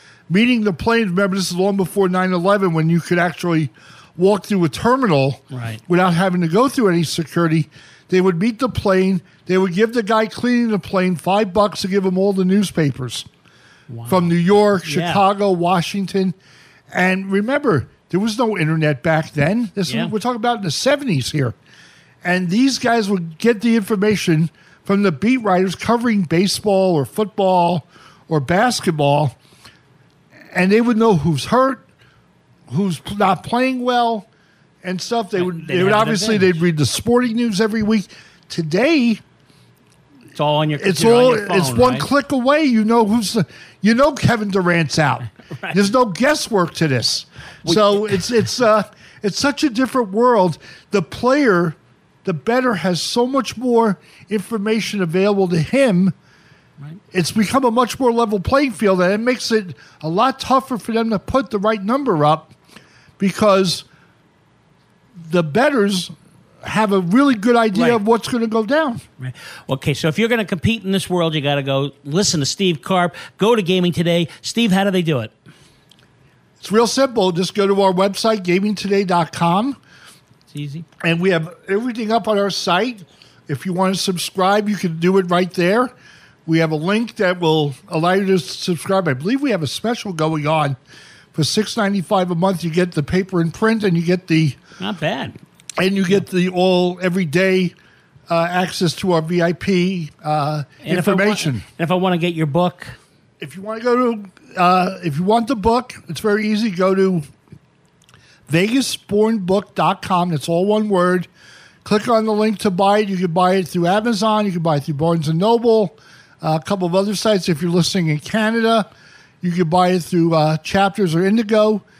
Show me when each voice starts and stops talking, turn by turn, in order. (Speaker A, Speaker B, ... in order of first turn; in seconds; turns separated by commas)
Speaker A: 0.3-13.3, Speaker B: 5.5-5.8, Speaker B: 13.9-15.2, Speaker A: 14.1-16.3, Speaker A: 16.9-21.5, Speaker B: 19.9-20.1, Speaker A: 22.2-29.4, Speaker A: 30.5-31.8, Speaker A: 32.7-34.2, Speaker A: 34.8-39.2, Speaker B: 35.3-36.6, Speaker B: 40.4-42.1, Speaker A: 40.8-56.1, Speaker B: 45.4-45.9, Speaker B: 47.6-48.4, Speaker A: 57.1-62.5, Speaker A: 63.2-63.8, Speaker A: 65.2-66.1, Speaker A: 66.6-69.0, Speaker B: 67.7-68.0, Speaker B: 69.2-75.3, Speaker A: 76.6-79.8, Speaker B: 80.5-80.8, Speaker A: 81.0-85.9, Speaker A: 86.5-90.8, Speaker A: 91.3-94.6, Speaker B: 94.8-95.4, Speaker A: 95.8-97.7, Speaker A: 98.3-101.6, Speaker B: 100.8-103.0, Speaker A: 103.4-107.3, Speaker A: 108.5-111.3, Speaker A: 111.8-118.9, Speaker A: 119.4-121.8